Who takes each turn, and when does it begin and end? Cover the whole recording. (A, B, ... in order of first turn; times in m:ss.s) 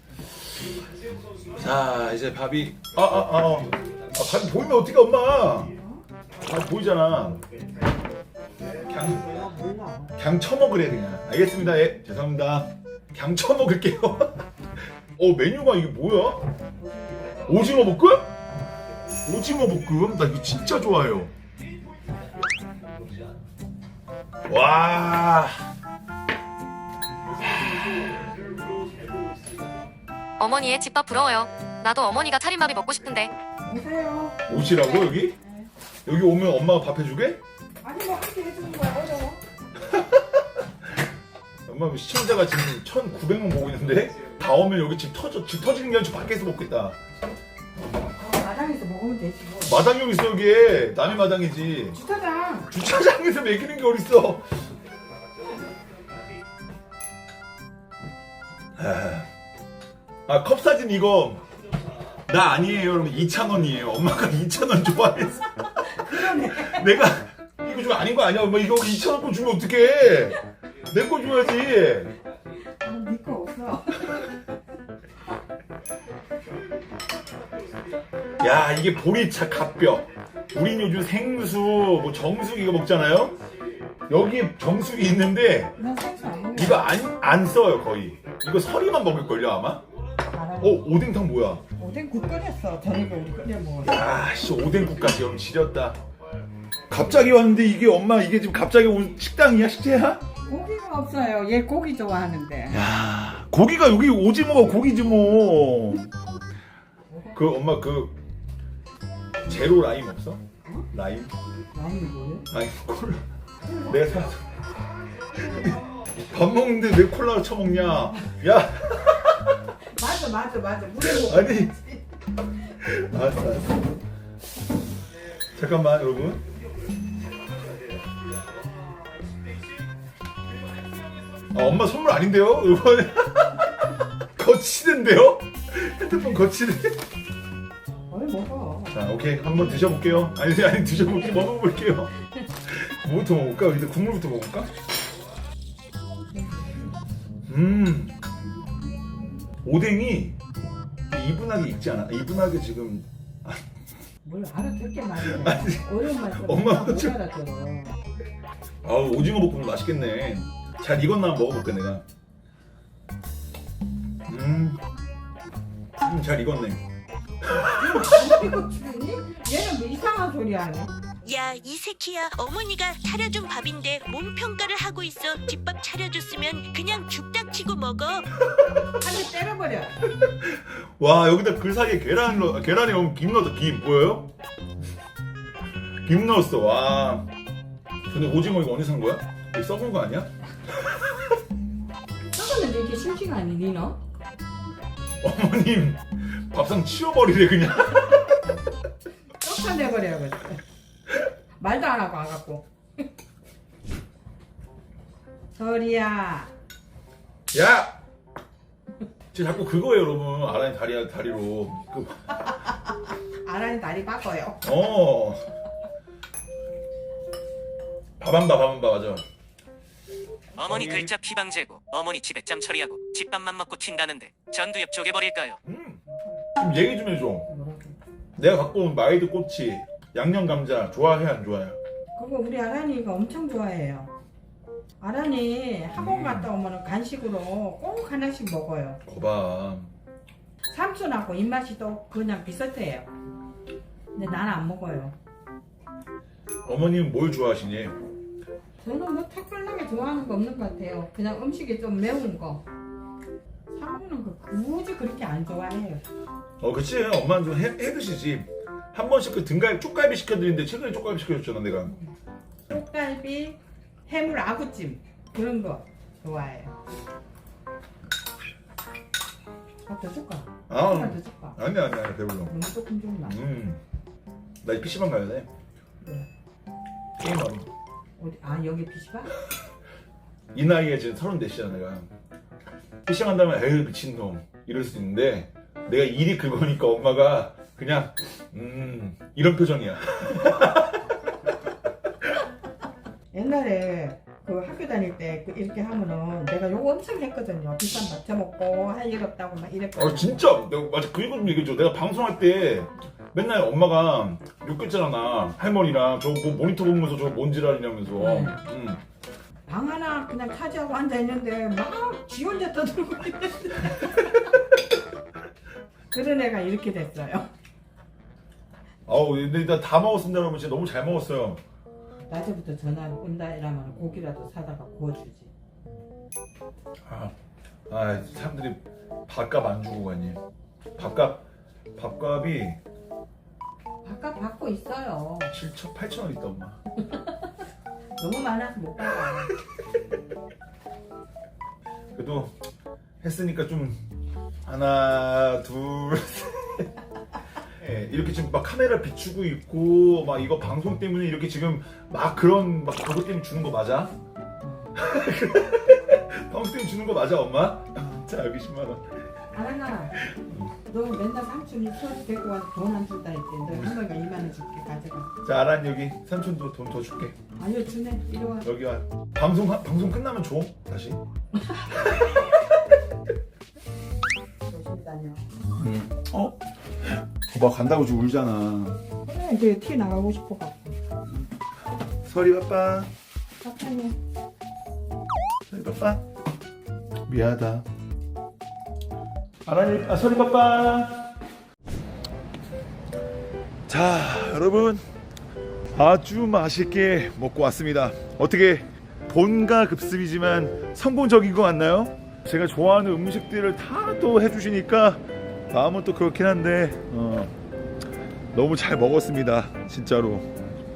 0:01.5-0:05.7 A
0:05.7-0:06.0 B
0:06.4-0:07.4 A
0:08.8-0:09.3 A
0:09.0-0:10.2 B
0:10.2-0:14.5 A
0:15.1-0:16.5 A
0:16.8-0:17.4 B
0:17.4-0:18.3 A
0:19.2-0:21.3 A
0:24.4-0:25.5 A
0:30.4-0:33.3 C
0:33.6-0:35.7 B
0:34.5-0:35.4 A
0:36.0-0:37.4 A
0:37.8-0:39.4 B
0:39.8-0:40.4 A
0:41.6-0:47.0 A
0:48.0-0:49.8 B
0:49.6-0:52.0 A
0:51.9-0:52.7 B
0:52.7-0:54.5 A
0:58.8-0:59.3 A
1:00.2-1:01.4 A
1:02.3-1:12.1 A
1:06.0-1:06.9 B
1:12.8-1:14.3 B
1:18.4-1:23.4 A
1:24.1-1:25.7 A
1:25.8-1:26.9 B
1:26.5-1:29.8 A
1:30.3-1:30.9 B
1:30.6-1:31.6 A
1:31.8-1:34.0 B
1:33.8-1:36.0 A
1:36.9-1:40.2 A
1:40.4-1:42.8 B
1:42.7-1:46.1 A
1:47.1-1:47.4 B
1:47.3-1:48.2 A
1:49.4-1:51.3 A
1:51.7-1:52.5 B
1:52.5-1:53.2 A
1:53.8-1:54.4 A
1:55.4-1:59.4 A
2:00.0-2:02.0 B
2:01.0-2:01.7 A
2:02.8-2:03.9 A
2:05.5-2:06.4 A
2:11.5-2:17.0 A
2:18.1-2:19.1 B
2:18.9-2:24.7 A
2:26.3-2:26.8 B
2:27.5-2:28.2 A
2:29.6-2:30.4 A
2:31.1-2:33.6 A
2:34.2-2:38.0 B
2:35.2-2:37.2 A
2:38.8-2:42.0 A
2:44.2-2:44.8 A
2:46.0-2:46.8 A
2:47.6-2:50.9 B
2:51.2-2:58.3 D
2:59.0-3:00.0 B
3:00.2-3:04.3 A
3:06.0-3:07.3 A
3:08.1-3:10.3 A
3:10.8-3:11.1 A
3:12.3-3:14.0 B
3:15.2-3:18.4 A
3:19.4-3:20.6 B
3:21.6-3:22.7 B
3:25.6-3:26.5 B
3:27.5-3:28.0 A
3:29.3-3:32.5 A
3:33.4-3:34.6 B
3:34.6-3:35.4 A
3:38.2-3:39.2 A
3:40.6-3:41.1 A
3:40.6-3:45.4 E
3:45.6-3:46.0 A
3:46.6-3:47.5 A
3:47.5-3:48.0 B
3:48.4-3:51.8 A
3:52.1-3:54.1 B
3:55.0-3:59.0 B
3:55.9-3:56.5 A
3:59.0-3:59.9 A
4:00.7-4:03.1 B
4:04.1-4:05.2 B
4:06.6-4:08.0 A
4:08.8-4:12.6 B
4:13.7-4:16.0 B
4:16.6-4:21.9 A
4:22.7-4:26.7 B
4:29.8-4:31.6 B
4:30.7-4:32.5 A
4:32.5-4:33.4 B
4:33.2-4:33.8 A
4:34.6-4:35.5 A
4:36.0-4:36.3 B
4:37.2-4:37.7 A
4:38.2-4:39.3 B
4:40.5-4:42.1 A
4:43.0-4:51.2 A
4:53.3-5:00.5 B
4:59.9-5:09.0 A
5:08.2-5:08.6 B
5:09.7-5:14.5 B
5:16.1-5:17.5 B
5:19.0-5:21.6 A
5:22.3-5:25.5 B
5:27.0-5:27.3 A
5:27.9-5:30.4 A
5:31.0-5:32.8 A
5:34.0-5:35.5 B
5:35.5-5:36.8 A
5:38.2-5:39.5 B
5:42.1-5:42.6 A
5:43.2-5:44.0 A
5:44.6-5:46.9 A
5:47.8-5:54.1 A
5:54.6-5:54.9 B
5:55.0-5:59.0 A
5:59.5-6:00.2 B
6:00.2-6:00.7 A
6:00.9-6:05.3 B
6:03.6-6:04.0 A
6:05.4-6:07.4 A
6:07.6-6:08.7 B
6:08.6-6:11.2 A
6:14.6-6:15.4 B
6:15.8-6:19.0 A
6:19.2-6:21.0 B
6:22.2-6:23.1 A
6:23.6-6:24.2 B
6:25.7-6:26.2 A
6:27.2-6:27.8 A
6:29.6-6:31.3 A
6:33.9-6:35.0 A
6:35.9-6:47.5 A
6:48.5-6:50.5 A